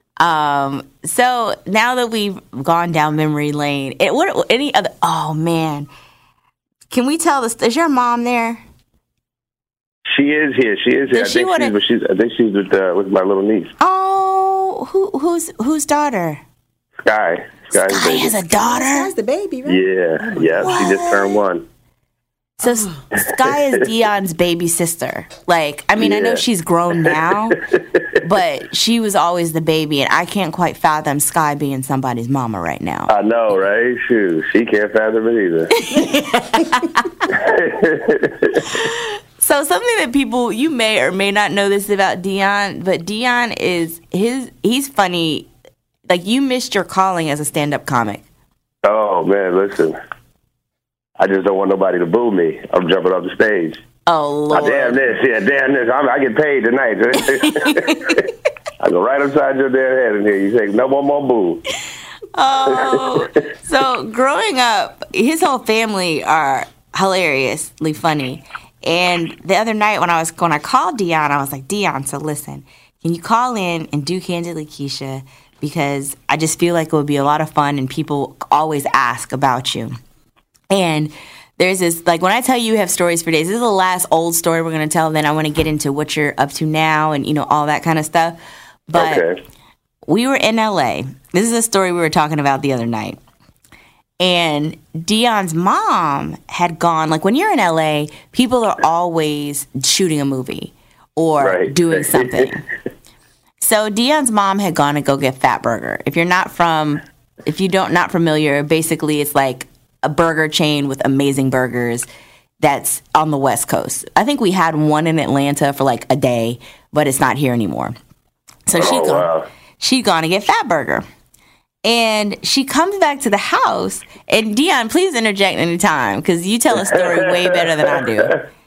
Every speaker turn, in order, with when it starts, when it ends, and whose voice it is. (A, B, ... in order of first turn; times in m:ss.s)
0:00.2-0:05.9 A
0:06.9-0:08.6 A
0:10.1-0:13.7 B
0:11.1-0:11.8 A
0:13.8-0:16.4 A
0:17.0-0:18.4 B
0:17.7-0:19.1 A
0:18.6-0:20.8 C
0:19.7-0:21.6 B
0:20.6-0:21.4 A
0:22.6-0:27.6 A
0:23.2-0:23.8 B
0:26.0-0:26.4 B
0:27.0-0:28.2 B
0:28.2-0:33.1 A
0:33.1-0:35.7 B
0:35.8-0:37.0 A
0:37.3-0:38.8 B
0:38.7-0:45.5 A
0:46.1-0:48.2 A
0:48.8-0:50.0 B
0:51.2-0:53.8 B
0:54.1-0:55.0 A
0:54.5-0:58.3 B
0:57.3-0:58.2 A
0:58.8-1:01.6 B
1:02.3-1:19.9 A
1:02.6-1:03.5 B
1:20.7-1:28.4 A
1:28.9-1:29.2 A
1:28.9-1:29.4 B
1:30.1-1:33.2 A
1:34.2-1:42.6 A
1:41.4-1:42.5 B
1:43.6-1:52.1 A
1:52.6-1:58.0 A
1:58.7-2:01.0 A
1:58.8-1:59.5 B
2:01.8-2:08.4 A
2:06.7-2:08.4 B